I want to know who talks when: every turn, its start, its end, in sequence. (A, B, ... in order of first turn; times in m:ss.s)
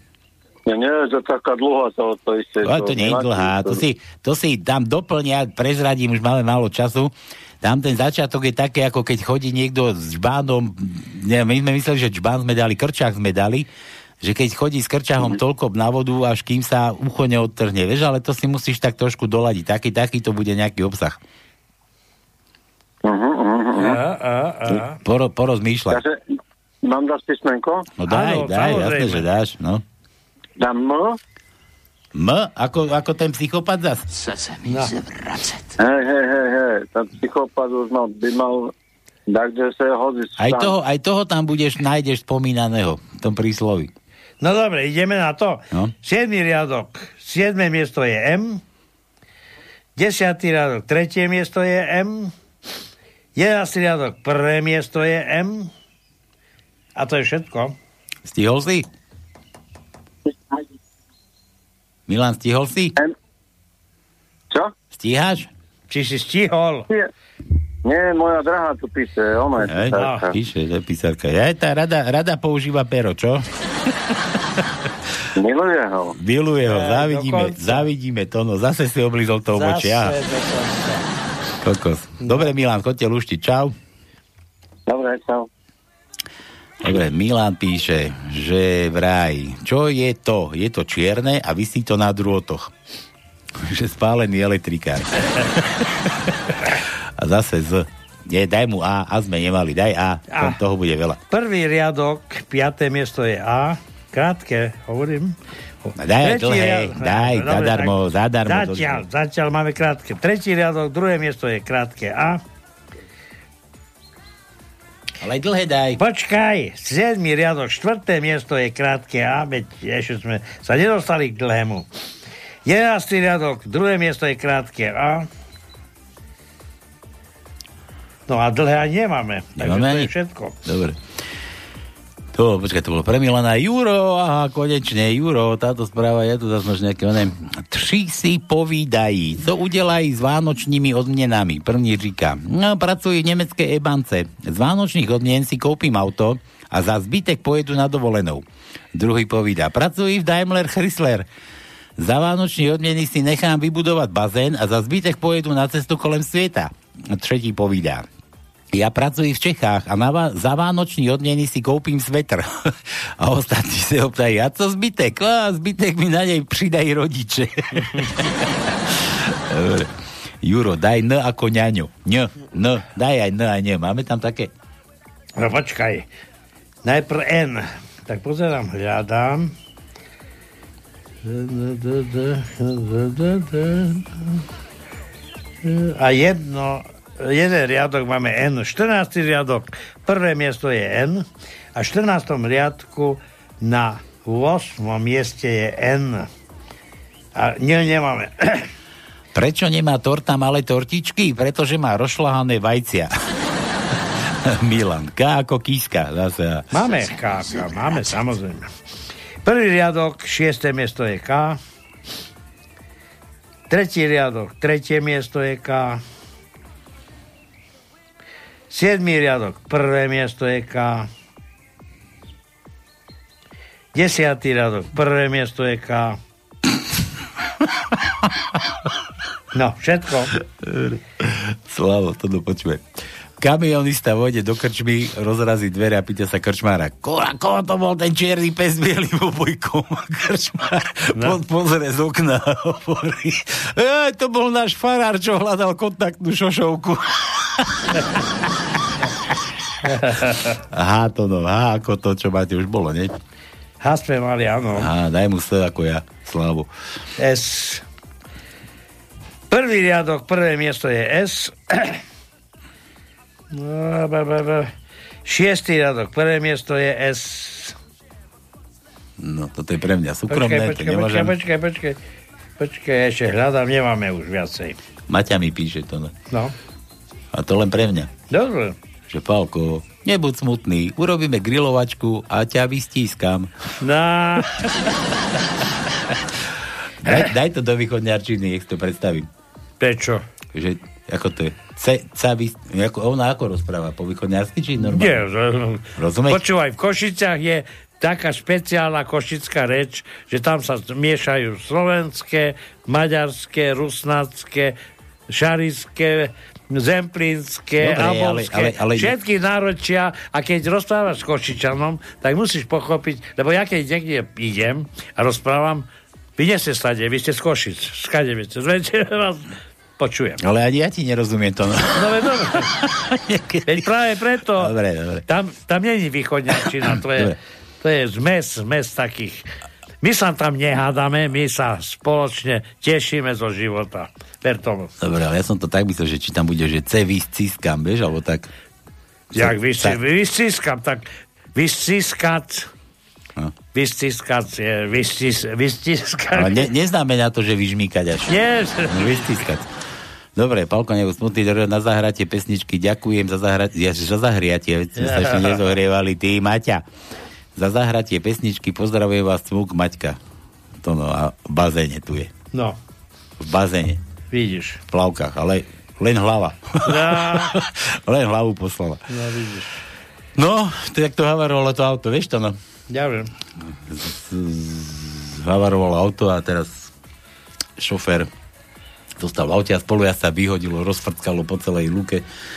0:00.6-0:03.8 A
0:02.6-0:13.7 B
0:14.2-0:21.2 B
0:23.0-0:24.0 A
0:23.8-0:25.0 C
0:24.7-0:26.0 B
0:25.9-0:26.2 A
0:26.8-0:27.9 A
0:28.0-0:29.8 B
0:28.1-0:29.2 C
0:30.6-0:31.2 A
0:32.1-0:34.0 B
0:34.1-0:35.7 D
0:34.7-0:34.9 C
0:35.8-0:38.7 A
0:39.3-0:40.7 A
0:40.4-0:43.9 B
0:44.4-0:48.6 C
0:50.0-0:52.3 C
0:53.4-0:55.7 C
0:57.0-0:57.7 C
0:58.2-0:58.9 B
1:00.2-1:00.6 A
1:02.1-1:03.0 B
1:04.9-1:05.5 B
1:05.9-1:06.9 C
1:07.8-1:10.3 A
1:09.6-1:13.4 B
1:10.0-1:10.3 C
1:15.4-1:16.1 A
1:16.2-1:20.2 B
1:16.7-1:17.8 C
1:19.5-1:21.0 C
1:21.6-1:23.7 B
1:22.2-1:22.5 C
1:24.9-1:25.5 A
1:26.8-1:32.7 B
1:33.6-1:35.8 B
1:37.2-1:41.2 B
1:40.3-1:40.6 C
1:41.3-1:47.9 C
1:46.0-1:49.0 B
1:48.4-1:52.4 C
1:55.2-1:56.0 B
1:56.0-2:01.9 C
2:02.6-2:05.3 C
2:08.3-2:10.6 C
2:09.6-2:10.1 B
2:10.6-2:11.0 B
2:12.3-2:31.3 B
2:32.0-2:38.0 B
2:38.7-2:49.9 B
2:50.4-2:54.5 B
2:55.4-2:56.0 C
2:56.8-2:59.5 C
3:01.2-3:04.4 C
3:05.6-3:11.2 C
3:11.8-3:16.3 C
3:17.3-3:18.7 C
3:19.3-3:23.1 B
3:24.3-3:26.7 B
3:26.7-3:28.7 C
3:26.8-3:28.0 D
3:29.4-3:31.6 C
3:33.7-3:36.0 C
3:38.7-3:41.1 C
3:43.9-3:46.2 C
3:49.5-3:50.3 C
3:50.4-3:52.8 B
3:53.4-4:08.1 B
4:09.8-4:10.6 C
4:10.7-4:13.1 B
4:13.8-4:14.9 C
4:14.7-4:16.7 B
4:17.2-4:17.8 C
4:19.5-4:22.0 C
4:23.5-4:24.7 C
4:25.2-4:27.8 C
4:29.2-4:31.4 B
4:30.3-4:32.0 C
4:32.6-4:34.8 C
4:35.1-4:36.1 B
4:37.3-4:38.1 B
4:38.3-4:38.8 C
4:39.1-4:43.5 B
4:43.8-4:44.9 C
4:47.0-4:49.3 B
4:49.8-4:50.2 C
4:50.5-4:55.2 B
4:54.8-5:04.8 C
4:56.0-4:56.4 B
5:05.3-5:15.8 C
5:07.8-5:09.2 B
5:16.4-5:20.4 C
5:20.4-5:23.9 B
5:21.9-5:22.7 C
5:23.6-5:24.7 C
5:24.6-5:25.2 B
5:25.3-5:29.5 C
5:26.5-5:27.4 B
5:30.0-5:34.9 C
5:35.0-5:38.5 B
5:39.3-5:42.7 C
5:39.3-5:40.0 B
5:43.7-5:46.7 C
5:46.3-5:49.7 B
5:48.3-5:49.3 C
5:50.4-5:56.8 B
5:55.0-5:55.6 C
5:57.6-6:00.2 B
6:00.8-6:02.3 B
6:02.5-6:02.8 C
6:03.4-6:04.0 B
6:04.3-6:04.8 C
6:04.9-6:09.0 B
6:06.8-6:07.5 C
6:09.1-6:09.8 C
6:10.4-6:12.6 B
6:12.9-6:13.3 C
6:13.9-6:16.9 B
6:17.8-6:18.3 B
6:19.2-6:22.2 B